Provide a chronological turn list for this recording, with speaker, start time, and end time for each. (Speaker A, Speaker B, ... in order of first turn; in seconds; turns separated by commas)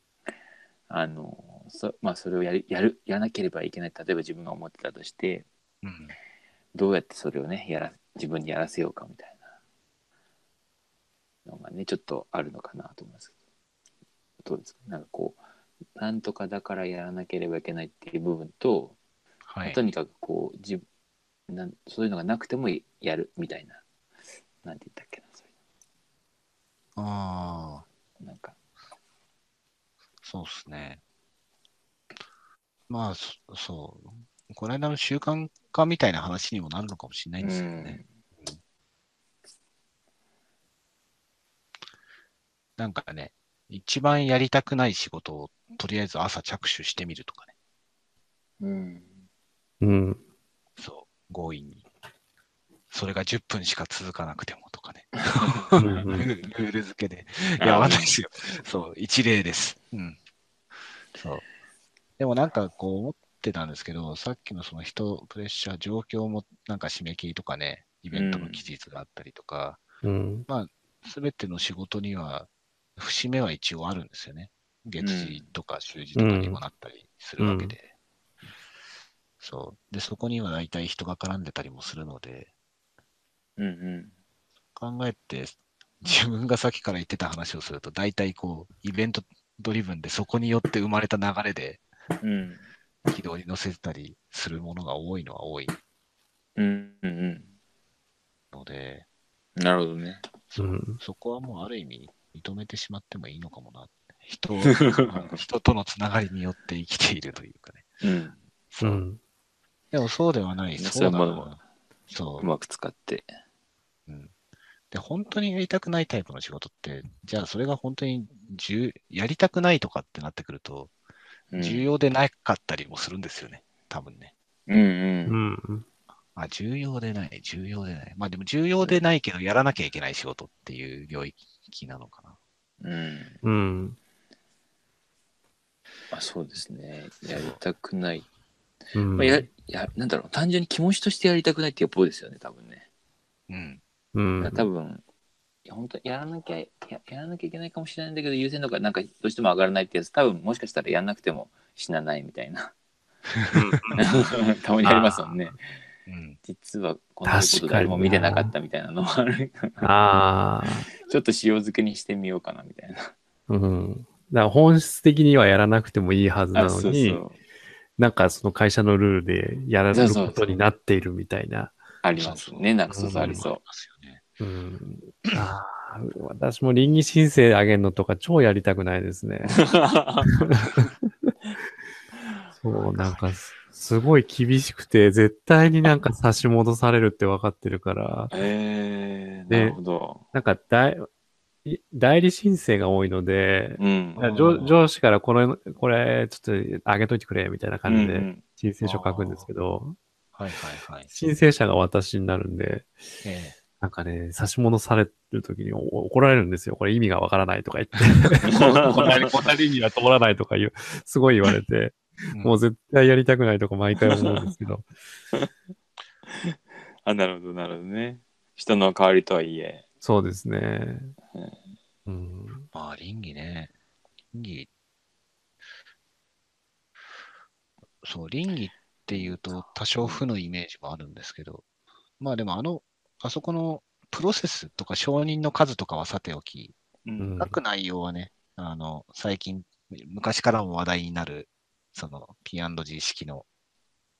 Speaker A: 0.9-5.5, Speaker B: 5.8-6.2, Speaker A: 6.7-9.5, Speaker A: 11.4-13.3, Speaker A: 14.4-15.4, Speaker A: 15.9-19.0, Speaker B: 19.5-19.8, Speaker A: 19.6-20.8, Speaker A: 21.5-23.8, Speaker A: 24.6-25.5, Speaker B: 26.9-27.9, Speaker A: 28.2-28.6, Speaker B: 30.2-31.0, Speaker B: 32.9-38.6, Speaker A: 37.4-38.1, Speaker B: 42.8-47.5, Speaker A: 48.6-49.2, Speaker C: 49.8-50.2, Speaker B: 50.8-51.8, Speaker B: 52.9-60.2, Speaker A: 55.3-56.1, Speaker C: 55.8-56.3, Speaker A: 57.6-58.2, Speaker B: 61.1-61.4, Speaker B: 62.2-69.8, Speaker A: 68.1-68.6, Speaker C: 70.0-70.5, Speaker B: 70.5-77.9, Speaker A: 75.0-75.5, Speaker C: 76.1-76.6, Speaker C: 77.4-77.7, Speaker B: 79.4-82.5, Speaker A: 83.6-84.1, Speaker B: 84.8-91.8, Speaker A: 92.2-92.7, Speaker B: 93.1-95.8, Speaker A: 96.6-97.5, Speaker B: 98.5-99.0, Speaker A: 99.6-100.3, Speaker B: 100.5-107.9, Speaker C: 100.6-101.0, Speaker A: 104.7-105.4, Speaker A: 108.0-108.4, Speaker B: 108.7-109.0, Speaker C: 108.8-109.2, Speaker B: 109.9-111.6, Speaker A: 110.8-111.6, Speaker B: 112.1-112.5, Speaker A: 112.4-113.3, Speaker B: 114.1-114.3, Speaker B: 114.9-120.9, Speaker A: 121.5-121.9, Speaker B: 121.6-124.3, Speaker A: 124.7-125.4, Speaker C: 125.3-125.8, Speaker B: 126.3-132.4, Speaker A: 132.8-133.4, Speaker C: 133.4-134.0, Speaker A: 136.1-138.3, Speaker B: 137.2-137.6, Speaker C: 138.9-139.4, Speaker A: 139.1-142.9, Speaker B: 143.5-143.8, Speaker C: 144.1-144.7, Speaker A: 144.4-145.0, Speaker A: 145.7-152.7, Speaker B: 153.3-154.0, Speaker C: 153.5-154.0, Speaker A: 153.9-155.6, Speaker C: 154.8-155.5, Speaker B: 156.1-156.4, Speaker A: 156.4-159.9, Speaker C: 157.2-158.5, Speaker C: 159.8-160.9, Speaker A: 161.0-163.1, Speaker C: 163.5-167.2, Speaker A: 166.5-167.4, Speaker C: 168.0-171.8, Speaker A: 169.9-170.5, Speaker A: 172.0-173.6, Speaker B: 172.1-172.7, Speaker C: 172.9-173.4, Speaker B: 173.2-174.2, Speaker C: 174.4-179.6, Speaker A: 179.5-180.4, Speaker C: 180.2-180.8, Speaker C: 182.6-188.3, Speaker A: 188.3-190.2, Speaker C: 189.5-189.8, Speaker C: 190.3-191.1, Speaker C: 191.6-200.0, Speaker A: 193.8-194.2, Speaker B: 194.2-194.8, Speaker A: 197.8-198.4, Speaker B: 198.8-199.5, Speaker B: 200.3-201.1, Speaker C: 201.1-202.9, Speaker B: 203.2-203.6, Speaker C: 203.8-214.9, Speaker A: 208.4-209.2, Speaker B: 212.3-212.6, Speaker A: 214.0-214.5, Speaker A: 216.3-219.8, Speaker C: 220.0-221.1, Speaker A: 221.3-221.7, Speaker C: 222.1-222.7, Speaker B: 222.7-223.7, Speaker B: 224.3-224.7, Speaker B: 228.0-231.6, Speaker A: 229.1-230.2, Speaker B: 232.2-236.7, Speaker A: 237.0-237.3, Speaker C: 237.2-237.6, Speaker B: 237.4-243.5